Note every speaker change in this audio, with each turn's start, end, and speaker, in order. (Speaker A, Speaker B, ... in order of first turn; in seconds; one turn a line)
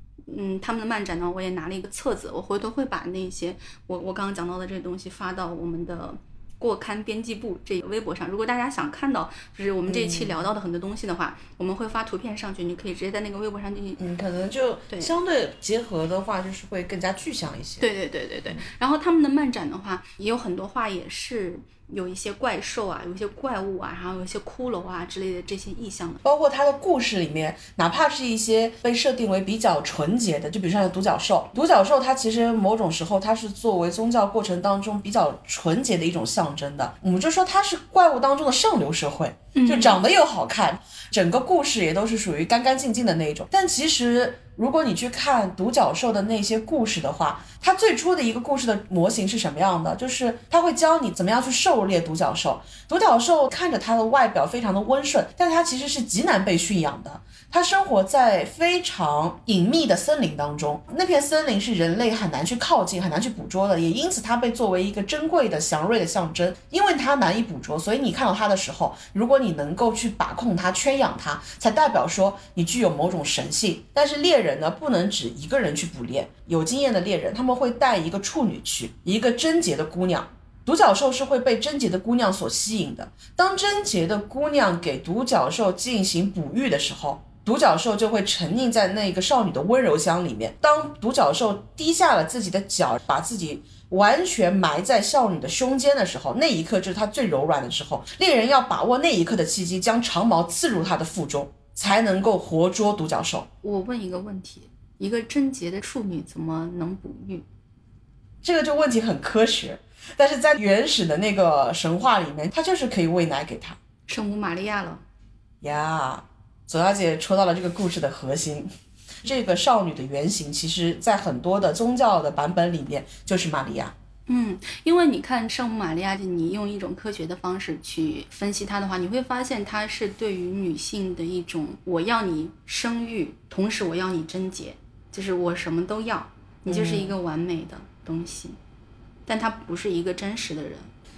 Speaker A: 0.3-14.0
Speaker B: 9.9-10.4
Speaker B: 14.0-17.9
Speaker A: 17.8-26.2
Speaker B: 26.2-103.5
Speaker A: 39.5-40.0
Speaker A: 103.6-107.5
Speaker B: 108.4-113.8
Speaker A: 114.1-115.0
Speaker B: 115.6-118.7
Speaker B: 119.2-123.9
Speaker A: 124.3-138.6
Speaker B: 136.7-137.1
Speaker A: 139.3-140.9